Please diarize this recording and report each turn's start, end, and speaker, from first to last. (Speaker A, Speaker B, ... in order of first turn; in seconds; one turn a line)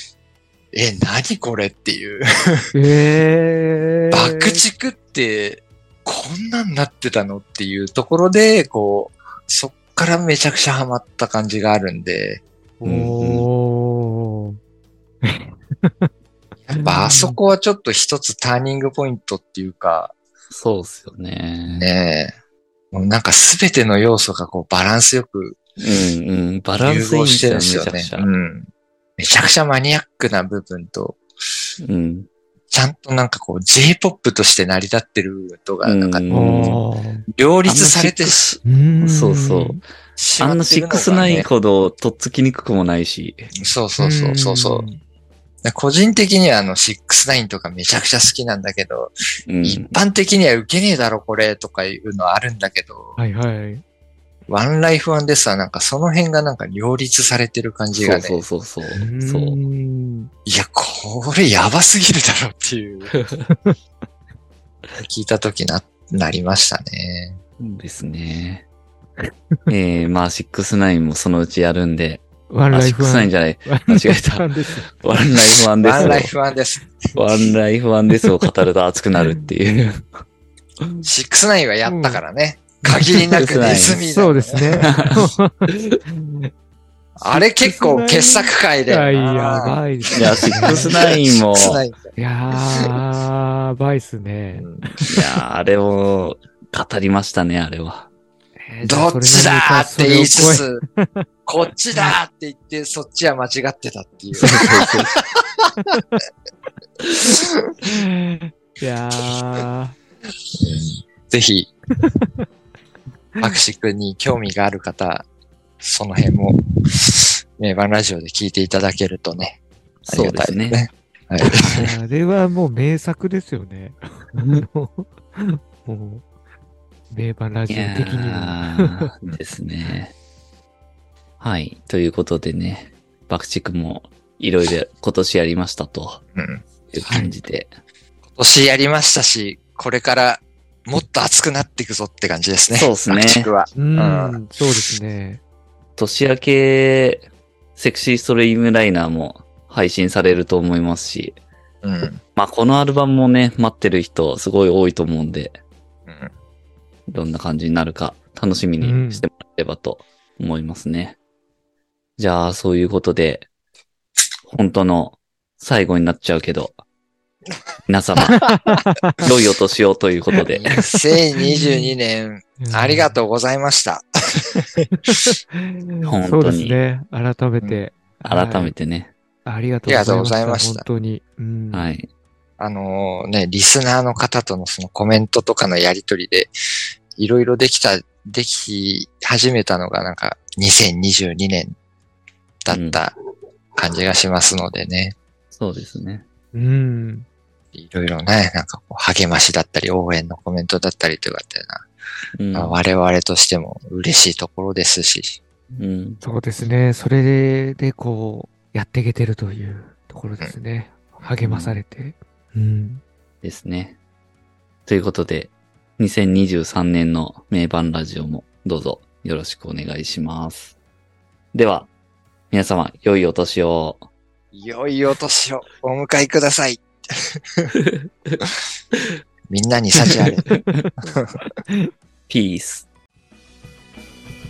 Speaker A: 0.7-2.7
Speaker B: 2.7-4.6
Speaker A: 4.1-12.4
Speaker B: 12.8-14.6
Speaker C: 12.8-13.5
Speaker B: 15.2-16.1
Speaker A: 16.7-20.1
Speaker B: 16.7-17.4
Speaker C: 20.5-21.9
Speaker A: 21.7-22.4
Speaker A: 22.9-25.6
Speaker C: 25.8-28.3
Speaker A: 26.8-28.7
Speaker A: 29.2-31.2
Speaker C: 31.8-32.3
Speaker A: 32.7-36.7
Speaker C: 35.8-36.8
Speaker B: 36.3-37.2
Speaker A: 37.4-38.6
Speaker C: 37.7-39.8
Speaker B: 38.6-39.8
Speaker A: 40.2-41.5
Speaker C: 40.4-43.5
Speaker A: 43.6-44.9
Speaker B: 44.0-45.0
Speaker A: 45.6-53.2
Speaker C: 49.5-50.0
Speaker B: 53.2-53.8
Speaker A: 54.5-58.4
Speaker C: 58.0-59.6
Speaker B: 59.0-60.3
Speaker A: 60.5-63.2
Speaker C: 63.1-63.5
Speaker B: 63.5-63.8
Speaker A: 65.0-67.4
Speaker C: 67.6-68.7
Speaker C: 69.7-76.3
Speaker B: 72.5-75.0
Speaker A: 75.8-77.2
Speaker B: 76.0-76.2
Speaker C: 77.2-80.1
Speaker A: 81.0-84.9
Speaker B: 81.8-82.2
Speaker B: 82.9-86.5
Speaker C: 83.4-84.0
Speaker C: 84.8-85.3
Speaker A: 87.2-92.2
Speaker B: 87.3-90.9
Speaker C: 90.1-91.8
Speaker B: 92.2-95.2
Speaker A: 94.5-94.9
Speaker C: 95.1-98.1
Speaker B: 98.6-101.3
Speaker A: 98.8-100.8
Speaker A: 101.5-105.7
Speaker C: 104.4-105.1
Speaker B: 105.8-106.0
Speaker A: 107.3-107.7
Speaker B: 107.8-110.0
Speaker A: 110.5-111.7
Speaker B: 112.0-112.5
Speaker A: 113.4-115.3
Speaker A: 115.8-121.9
Speaker C: 120.1-120.8
Speaker B: 121.5-126.2
Speaker C: 121.5-121.9
Speaker C: 124.4-124.7
Speaker B: 127.1-129.1
Speaker C: 127.7-130.1
Speaker C: 131.4-136.2
Speaker A: 136.3-137.3
Speaker C: 136.9-137.7
Speaker A: 138.3-144.4
Speaker C: 142.8-143.5
Speaker B: 143.8-145.4
Speaker C: 146.0-151.4
Speaker A: 151.8-152.2
Speaker C: 152.3-155.6
Speaker A: 156.1-156.3
Speaker C: 157.1-161.2
Speaker B: 158.8-159.2
Speaker C: 162.2-163.5
Speaker C: 164.4-166.8
Speaker C: 167.9-168.5
Speaker B: 168.2-169.2
Speaker C: 169.2-170.8
Speaker A: 170.6-174.9
Speaker B: 171.4-171.9
Speaker B: 172.6-173.2
Speaker B: 175.0-178.7
Speaker C: 176.1-176.8
Speaker C: 178.2-179.1
Speaker B: 179.4-181.9
Speaker A: 179.9-180.8
Speaker C: 181.7-182.1
Speaker A: 182.6-186.5
Speaker A: 187.2-191.8
Speaker A: 192.7-193.2
Speaker C: 192.7-193.0
Speaker A: 193.8-195.2
Speaker C: 195.5-196.2
Speaker B: 196.5-197.3
Speaker A: 197.7-201.8
Speaker C: 202.4-202.8
Speaker A: 202.5-205.4
Speaker C: 205.8-206.2
Speaker B: 206.2-213.0
Speaker C: 211.4-211.8
Speaker C: 213.4-214.0
Speaker C: 214.9-220.8
Speaker C: 221.5-221.9
Speaker C: 222.5-224.1
Speaker A: 224.5-227.8
Speaker C: 227.8-228.4
Speaker A: 229.5-230.5
Speaker B: 230.7-230.9
Speaker A: 231.1-231.4
Speaker C: 232.3-232.9